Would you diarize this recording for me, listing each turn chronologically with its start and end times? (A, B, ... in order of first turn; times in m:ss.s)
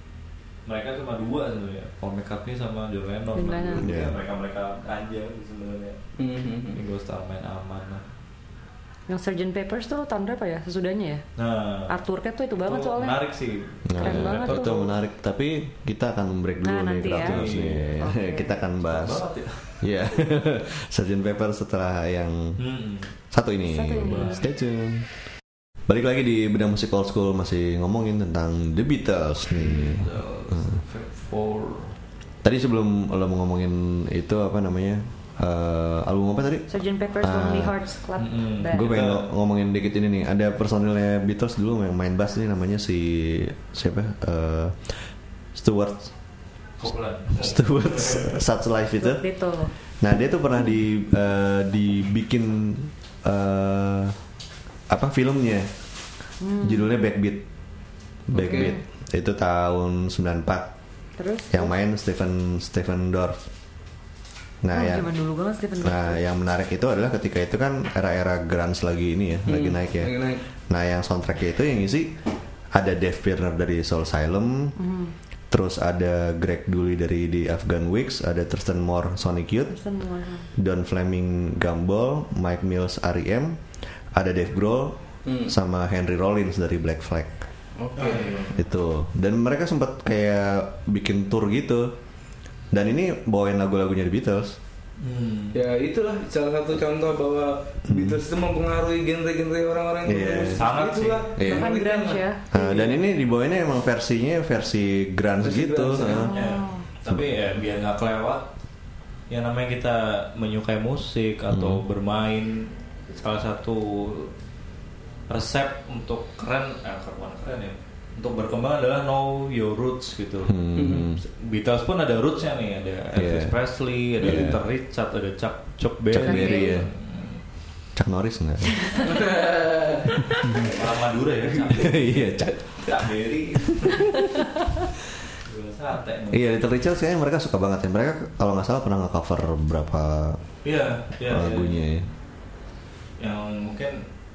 0:00.6-0:06.0 A
0:03.4-0:03.9 B
0:03.8-0:04.2 C
0:06.2-0:06.8 D
0:06.7-0:08.0 A
0:09.1-0:11.2 B
0:11.4-0:12.0 A
0:11.9-0:13.2 B
0:12.6-0:14.9 A
0:13.9-0:19.2 C
0:14.0-0:14.8 B
0:16.6-0:18.6 B
0:17.2-0:17.9 A
0:18.8-0:19.9 A
0:19.8-0:22.6 C
0:22.6-0:23.2 A
0:23.3-0:25.1 C
0:23.7-0:24.5 B
0:24.0-0:24.4 A
0:25.9-0:30.1 C
0:29.6-0:32.0 A
0:32.4-0:36.7 C
0:36.7-0:39.0 B
0:37.2-0:37.8 C
0:38.2-0:39.3 A
0:38.7-0:46.1 C
0:46.8-0:48.4 A
0:47.4-0:49.2 C
0:49.0-0:49.7 B
0:49.8-0:54.2 C
0:54.9-0:55.7 C
0:56.4-0:56.9 B
0:56.6-0:57.4 C
0:58.3-1:00.7 C
0:58.3-0:58.7 D
0:58.4-0:58.8 B
1:01.2-1:01.7 B
1:01.5-1:03.4 C
1:04.6-1:05.1 C
1:04.7-1:06.2 B
1:05.8-1:12.2 C
1:09.5-1:10.4 D
1:12.7-1:14.8 C
1:14.8-1:15.1 B
1:15.5-1:19.8 C
1:19.7-1:20.5 B
1:20.6-1:27.4 C
1:25.2-1:25.5 D
1:27.8-1:28.4 D
1:28.0-1:28.6 A
1:28.5-1:31.9 C
1:32.7-1:34.6 C
1:35.0-1:35.6 A
1:35.5-1:43.0 D
1:37.9-1:38.2 C
1:40.0-1:40.6 C
1:40.5-1:41.3 A
1:41.4-1:41.7 C
1:41.4-1:42.6 B
1:42.5-1:46.3 C
1:45.4-1:46.3 D
1:46.0-1:46.9 B
1:46.0-1:48.5 A
1:49.3-1:54.3 A
1:51.5-1:51.8 C
1:55.3-2:00.6 A
2:00.5-2:01.2 C
2:00.8-2:01.1 D
2:01.1-2:07.4 A
2:03.2-2:03.6 C
2:04.2-2:04.6 C
2:06.1-2:06.9 C
2:06.2-2:06.8 B
2:08.0-2:09.0 C
2:09.0-2:10.8 D
2:10.4-2:10.7 C
2:10.6-2:14.3 A
2:11.7-2:12.9 C
2:15.4-2:16.5 A
2:16.3-2:20.4 C
2:20.6-2:21.8 A
2:21.3-2:22.1 C
2:23.2-2:24.0 A